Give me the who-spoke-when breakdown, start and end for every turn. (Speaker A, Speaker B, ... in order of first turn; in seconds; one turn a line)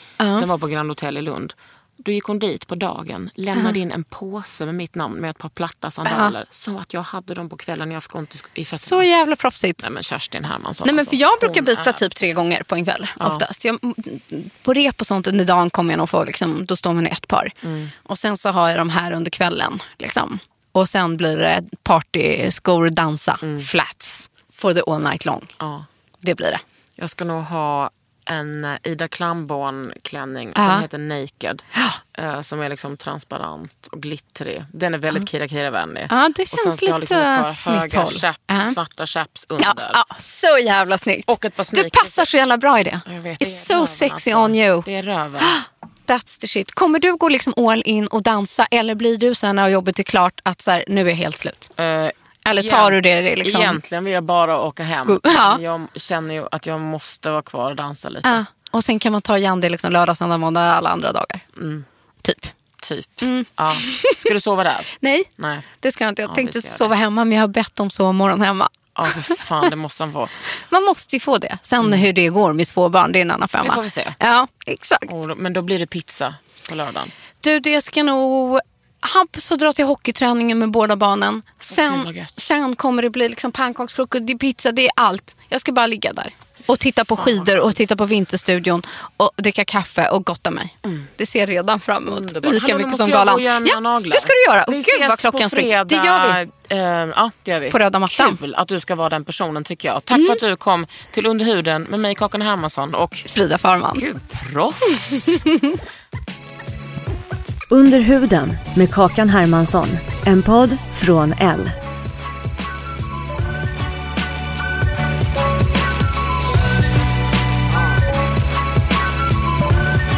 Speaker A: 0.2-0.5
Speaker B: 0.4-9.1
Speaker A: 6.1-6.3
Speaker A: 8.8-9.8
Speaker B: 9.8-12.0
Speaker A: 10.8-17.5
Speaker B: 17.6-17.9
Speaker A: 18.1-25.5
Speaker B: 25.6-25.9
Speaker A: 26.2-26.6
Speaker B: 27.0-40.0
Speaker A: 30.6-30.9
Speaker A: 36.1-38.8
Speaker A: 39.6-44.9
Speaker B: 41.3-42.3
Speaker B: 43.1-45.6
Speaker A: 45.4-51.7
Speaker B: 51.8-58.4
Speaker A: 52.5-53.8
Speaker A: 55.0-55.6
Speaker A: 58.2-61.4
Speaker B: 61.6-61.9
Speaker A: 62.2-62.5
Speaker B: 62.8-65.6
Speaker A: 63.2-64.3
Speaker A: 65.0-69.5
Speaker B: 66.3-66.9
Speaker B: 69.0-70.3
Speaker A: 70.6-75.1
Speaker B: 71.8-72.1
Speaker B: 73.6-74.2
Speaker B: 75.1-77.1
Speaker A: 77.4-96.4
Speaker B: 81.7-82.3
Speaker B: 87.1-87.9
Speaker B: 92.1-103.3
Speaker A: 97.7-98.4
Speaker A: 100.1-100.4
Speaker A: 103.3-104.0
Speaker B: 104.0-105.4
Speaker A: 105.1-105.7
Speaker C: 107.7-111.7